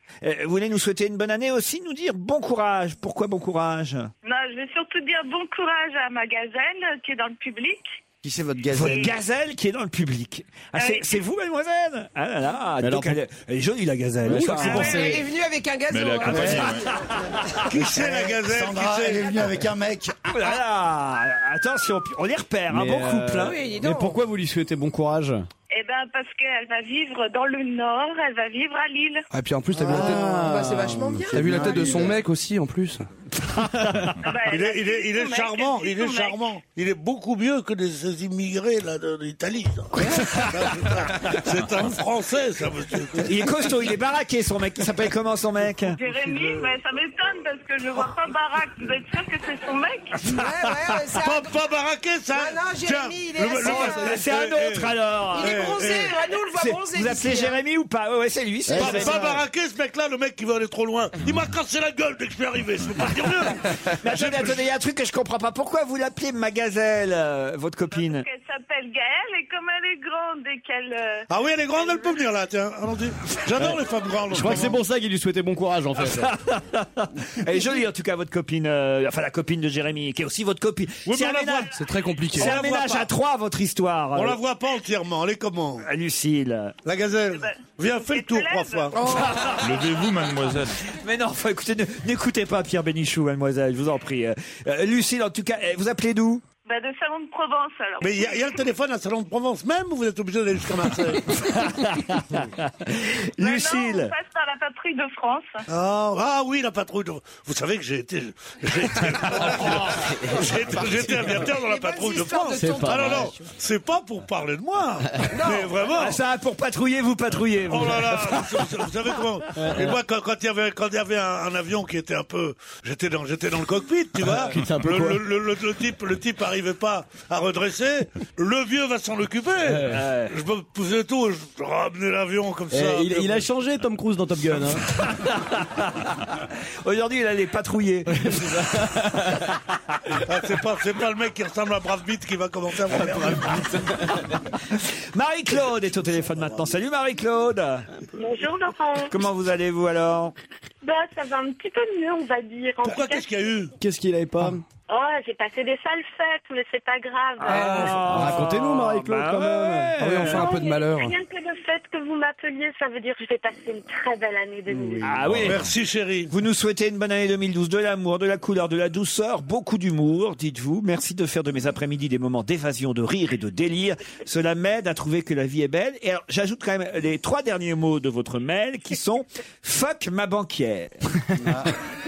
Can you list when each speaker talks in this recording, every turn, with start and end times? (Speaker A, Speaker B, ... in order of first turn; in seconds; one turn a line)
Speaker A: 0.2-4.1
Speaker B: 4.2-8.0
Speaker C: 8.2-9.1
Speaker A: 8.7-15.2
Speaker B: 10.8-11.1
Speaker D: 12.8-13.2
Speaker D: 14.2-15.2
Speaker E: 14.6-17.2
Speaker F: 15.9-16.9
Speaker A: 16.9-17.7
Speaker G: 17.7-19.3
Speaker C: 17.8-20.6
Speaker A: 20.3-23.6
Speaker D: 22.7-25.5
Speaker E: 23.4-24.2
Speaker B: 25.7-29.2
Speaker H: 29.3-30.5
Speaker D: 29.8-32.2
Speaker E: 29.9-32.1
Speaker H: 31.3-33.0
Speaker B: 34.2-36.5
Speaker G: 34.5-43.9
Speaker D: 40.0-40.3
Speaker A: 40.0-40.5
Speaker A: 43.2-46.0
Speaker B: 45.9-50.1
Speaker G: 46.1-46.8
Speaker E: 50.2-51.6
Speaker G: 51.1-56.2
Speaker E: 52.3-54.2
Speaker A: 53.6-55.8
Speaker E: 55.3-57.6
Speaker A: 56.6-59.3
Speaker G: 58.7-64.7
Speaker D: 58.8-59.4
Speaker A: 64.0-68.2
Speaker B: 67.9-72.1
Speaker G: 71.3-74.8
Speaker D: 73.5-76.3
Speaker A: 76.0-81.7
Speaker G: 81.0-81.8
Speaker H: 81.8-82.6
Speaker G: 82.3-83.1
Speaker A: 82.3-84.4
Speaker G: 84.1-85.9
Speaker A: 85.8-86.7
Speaker G: 86.8-89.0
Speaker B: 87.3-88.9
Speaker E: 89.0-89.3
Speaker A: 89.0-89.7
Speaker F: 89.6-90.8
Speaker A: 91.0-96.4
Speaker B: 96.7-98.6
Speaker G: 98.0-101.4
Speaker A: 101.3-104.1
Speaker B: 103.4-105.6
Speaker G: 105.7-116.2
Speaker D: 109.5-111.5
Speaker A: 109.6-109.9
Speaker E: 111.6-113.5
Speaker D: 112.5-113.3
Speaker E: 115.3-115.7
Speaker A: 116.0-118.6
Speaker G: 117.7-133.5
Speaker D: 119.5-119.9
Speaker D: 124.2-125.3
Speaker D: 129.6-130.0
Speaker A: 129.8-130.3
Speaker D: 132.7-134.8
Speaker A: 135.0-138.5
Speaker D: 138.1-139.3
Speaker G: 140.2-143.7
Speaker D: 142.9-144.2
Speaker A: 144.7-147.8
Speaker I: 148.2-149.1
Speaker A: 149.1-150.3
Speaker I: 150.8-153.3
Speaker G: 152.8-153.7
Speaker D: 153.8-154.6
Speaker I: 154.9-158.0
Speaker A: 157.4-160.5
Speaker G: 157.6-158.0
Speaker D: 157.7-159.9
Speaker H: 160.0-161.1
Speaker I: 160.2-165.2
Speaker D: 164.7-165.3
Speaker A: 165.0-165.6
Speaker G: 165.3-166.3
Speaker A: 166.3-180.9